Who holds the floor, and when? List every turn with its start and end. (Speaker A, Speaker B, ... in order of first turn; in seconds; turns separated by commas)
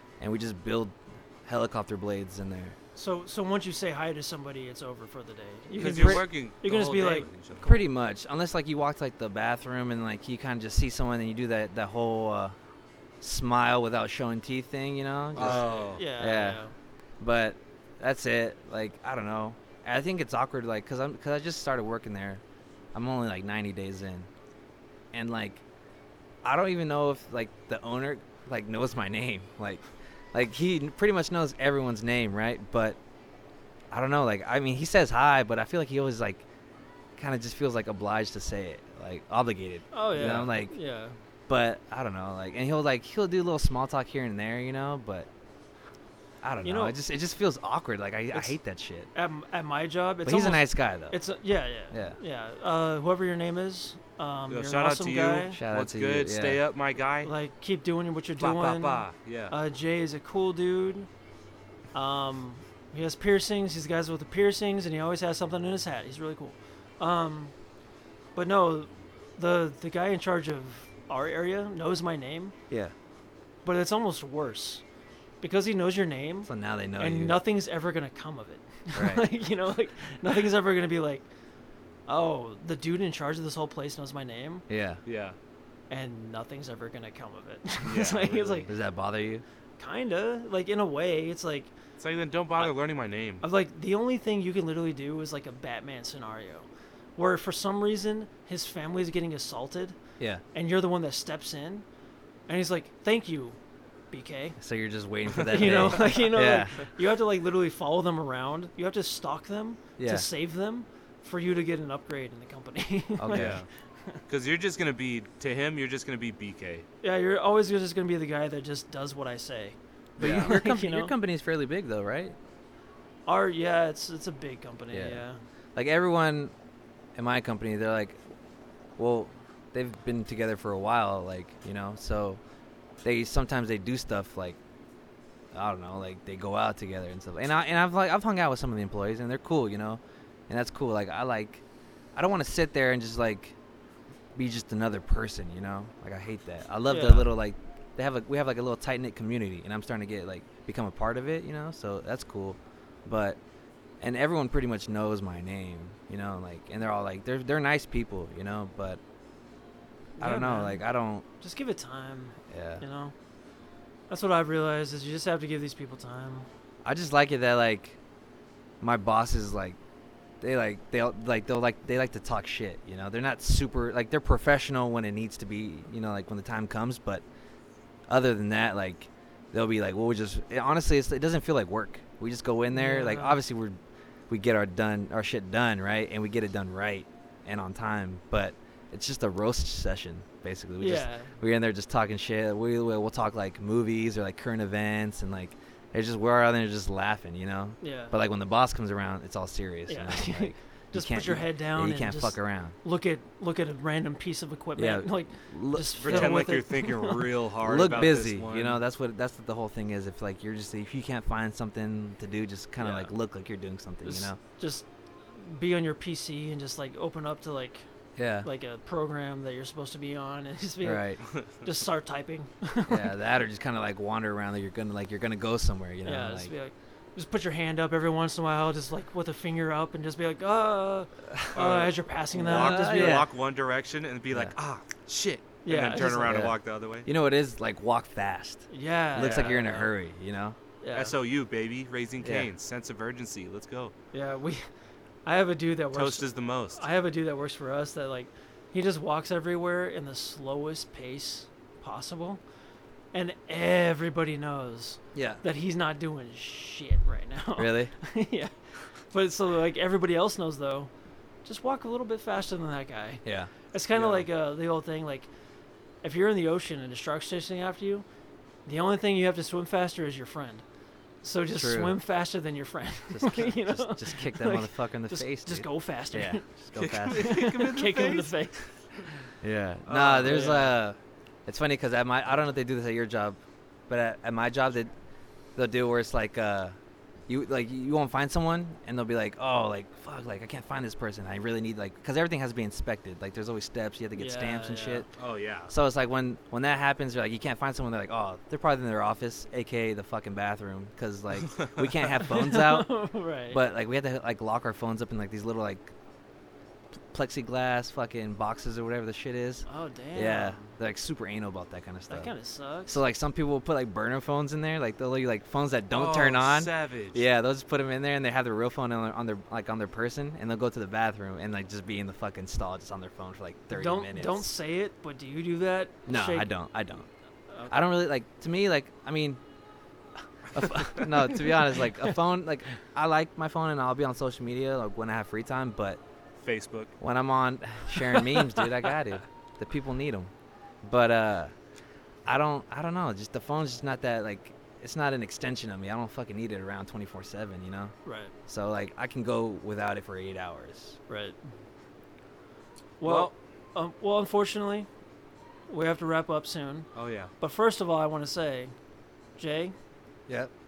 Speaker A: 0.2-2.8, Speaker B: 3.0-7.3, Speaker C: 5.7-7.8, Speaker A: 5.8-6.2, Speaker A: 7.6-12.6, Speaker A: 13.2-16.6, Speaker C: 15.3-16.0, Speaker B: 15.3-16.7, Speaker A: 17.2-22.4, Speaker A: 22.9-24.3, Speaker A: 25.1-25.6, Speaker A: 26.4-33.0, Speaker A: 33.9-36.4, Speaker A: 37.2-40.7, Speaker B: 39.9-41.1, Speaker A: 41.5-45.3, Speaker A: 46.4-49.1, Speaker B: 46.6-47.0, Speaker B: 49.1-55.6, Speaker A: 50.2-51.2, Speaker A: 51.9-52.2, Speaker C: 54.5-57.3, Speaker A: 55.5-56.6, Speaker B: 57.2-61.1, Speaker C: 58.4-59.5, Speaker B: 61.9-67.5, Speaker B: 68.3-72.5, Speaker B: 73.6-74.8, Speaker B: 75.4-81.3, Speaker A: 76.4-77.4, Speaker A: 78.9-79.2, Speaker B: 82.1-84.7, Speaker A: 84.7-85.0, Speaker C: 85.0-85.4, Speaker B: 85.9-88.7, Speaker C: 87.8-88.7, Speaker A: 88.7-89.4, Speaker B: 89.8-91.7, Speaker C: 92.0-93.4, Speaker B: 93.4-100.0, Speaker B: 100.5-101.8, Speaker B: 102.5-103.6, Speaker B: 104.1-104.6, Speaker A: 104.6-106.9, Speaker C: 105.3-105.9, Speaker B: 105.5-114.2, Speaker A: 110.0-110.3, Speaker A: 113.2-113.6, Speaker C: 113.3-113.6, Speaker C: 114.3-116.8, Speaker B: 117.0-121.1, Speaker C: 120.2-120.5, Speaker A: 120.2-122.3, Speaker B: 123.2-125.4, Speaker A: 124.9-125.2, Speaker A: 125.7-126.5, Speaker A: 127.2-128.2, Speaker A: 129.0-132.4, Speaker A: 133.0-134.6, Speaker A: 135.5-141.6, Speaker A: 142.1-143.5, Speaker A: 144.3-153.4, Speaker B: 146.9-147.3, Speaker A: 154.0-159.0, Speaker B: 160.2-160.8, Speaker A: 160.2-161.2, Speaker B: 161.4-163.1, Speaker A: 162.5-162.8, Speaker B: 164.1-166.5, Speaker A: 166.8-168.0, Speaker A: 168.8-169.8, Speaker A: 170.4-177.2, Speaker A: 178.1-183.8, Speaker B: 182.7-183.4, Speaker A: 184.3-202.8, Speaker B: 190.8-191.3, Speaker B: 197.8-198.2, Speaker B: 199.9-207.3, Speaker A: 204.8-206.5, Speaker C: 206.0-208.8, Speaker A: 207.6-214.4, Speaker B: 212.8-213.1, Speaker B: 214.0-217.8, Speaker A: 218.2-218.5, Speaker B: 218.4-223.1, Speaker A: 220.8-221.2, Speaker A: 222.9-226.5, Speaker B: 226.0-233.2, Speaker A: 231.3-231.6, Speaker C: 231.5-237.1, Speaker A: 232.4-233.3, Speaker A: 234.3-234.5, Speaker B: 235.6-236.4, Speaker A: 235.9-240.6, Speaker B: 238.7-239.8, Speaker C: 239.2-239.8, Speaker B: 240.8-241.1, Speaker C: 240.9-243.9, Speaker A: 242.2-242.5, Speaker B: 244.1-244.7, Speaker B: 245.2-252.4, Speaker C: 245.9-246.8, Speaker B: 253.1-260.9, Speaker A: 255.1-255.4, Speaker A: 257.6-257.9, Speaker B: 261.4-265.3, Speaker A: 263.2-263.5, Speaker C: 263.9-264.3, Speaker B: 266.0-268.1, Speaker B: 268.6-270.6, Speaker B: 271.2-276.4, Speaker A: 271.5-272.0, Speaker A: 273.1-277.3, Speaker C: 276.7-278.7, Speaker B: 277.1-278.5, Speaker A: 279.4-284.9, Speaker C: 279.9-280.6, Speaker B: 280.2-280.8, Speaker A: 285.6-286.8, Speaker A: 287.3-295.1, Speaker B: 294.1-295.0, Speaker C: 295.1-295.7, Speaker A: 295.7-303.0, Speaker B: 302.1-303.6, Speaker A: 303.5-305.9, Speaker A: 307.1-312.3, Speaker B: 309.7-310.7, Speaker B: 312.1-313.0, Speaker A: 312.9-324.5, Speaker C: 315.9-317.2, Speaker B: 323.7-326.5, Speaker A: 326.1-327.1, Speaker B: 327.5-327.9, Speaker A: 327.7-329.4, Speaker A: 330.5-336.0, Speaker B: 331.3-332.1, Speaker C: 336.4-336.9, Speaker A: 337.0-340.3, Speaker B: 338.1-338.5, Speaker A: 340.8-341.5, Speaker A: 342.2-347.9, Speaker B: 348.0-348.3, Speaker A: 348.5-351.0, Speaker B: 351.1-351.4, Speaker B: 353.0-354.9, Speaker C: 353.0-353.3, Speaker B: 355.7-356.9, Speaker C: 356.9-357.3, Speaker B: 357.4-358.7, Speaker B: 359.4-359.7